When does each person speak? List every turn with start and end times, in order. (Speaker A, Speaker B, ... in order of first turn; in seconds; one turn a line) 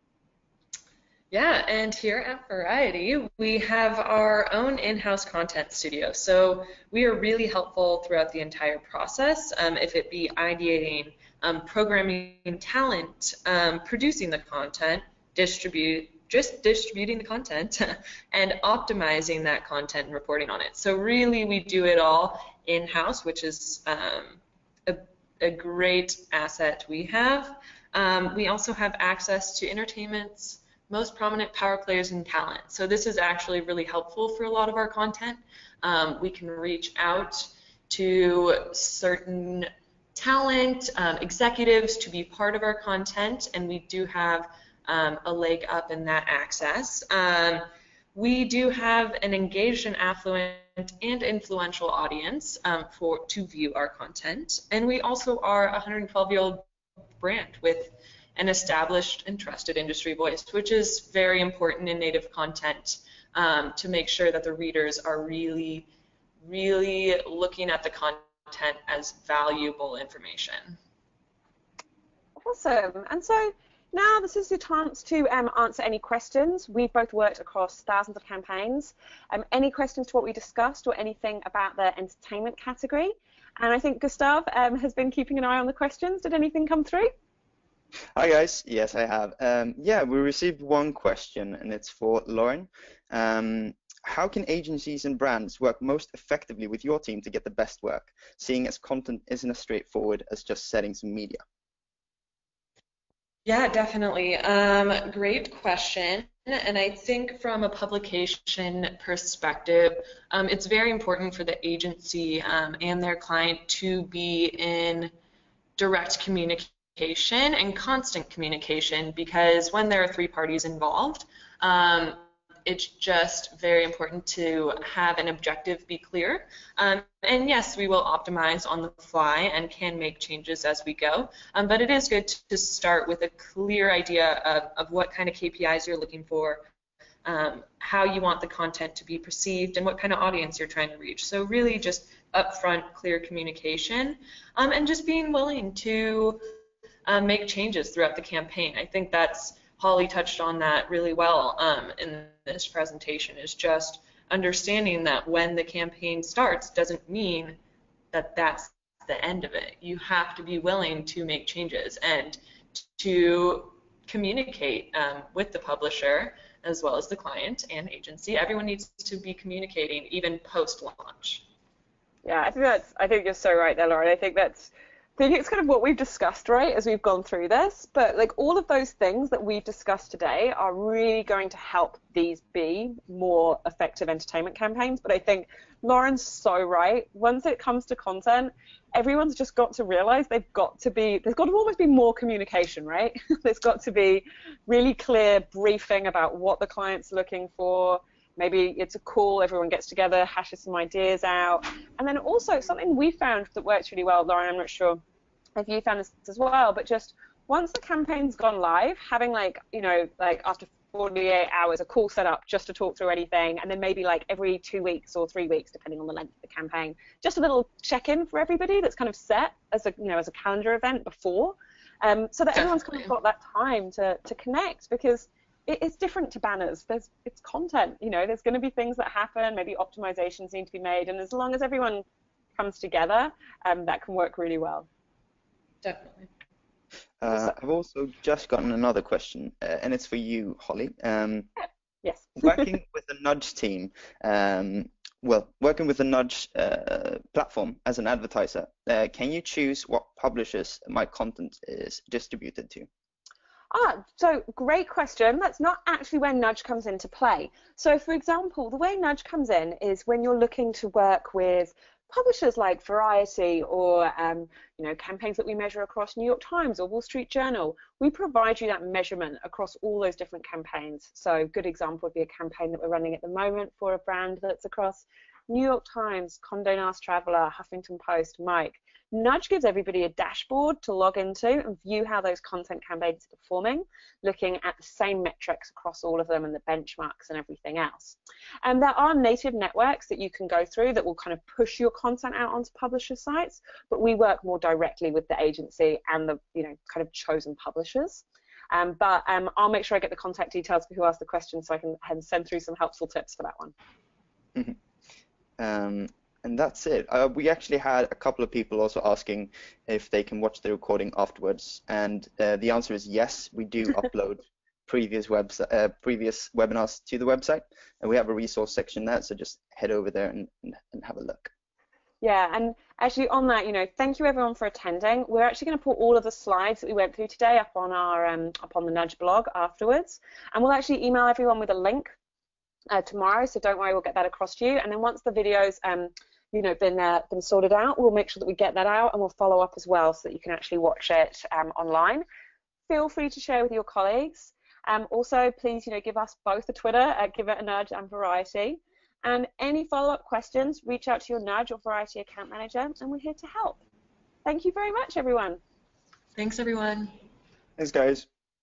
Speaker A: 1.3-56.6
Speaker A: 57.2-65.9
Speaker A: 66.4-70.8
Speaker B: 72.4-87.1
Speaker C: 88.2-101.4
Speaker A: 103.5-115.1
Speaker A: 115.8-136.6
Speaker A: 137.2-146.6
Speaker A: 147.1-157.6
Speaker A: 158.1-171.4
Speaker B: 172.2-205.0
Speaker B: 205.6-232.1
Speaker B: 232.6-234.9
Speaker A: 235.8-236.3
Speaker C: 237.2-241.5
Speaker B: 242.0-242.7
Speaker C: 242.4-252.9
Speaker B: 253.7-303.7
Speaker C: 305.6-321.5
Speaker B: 322.2-332.1
Speaker B: 332.9-342.2
Speaker B: 342.9-353.8
Speaker B: 354.4-355.6
Speaker A: 356.4-357.1
Speaker C: 357.8-358.3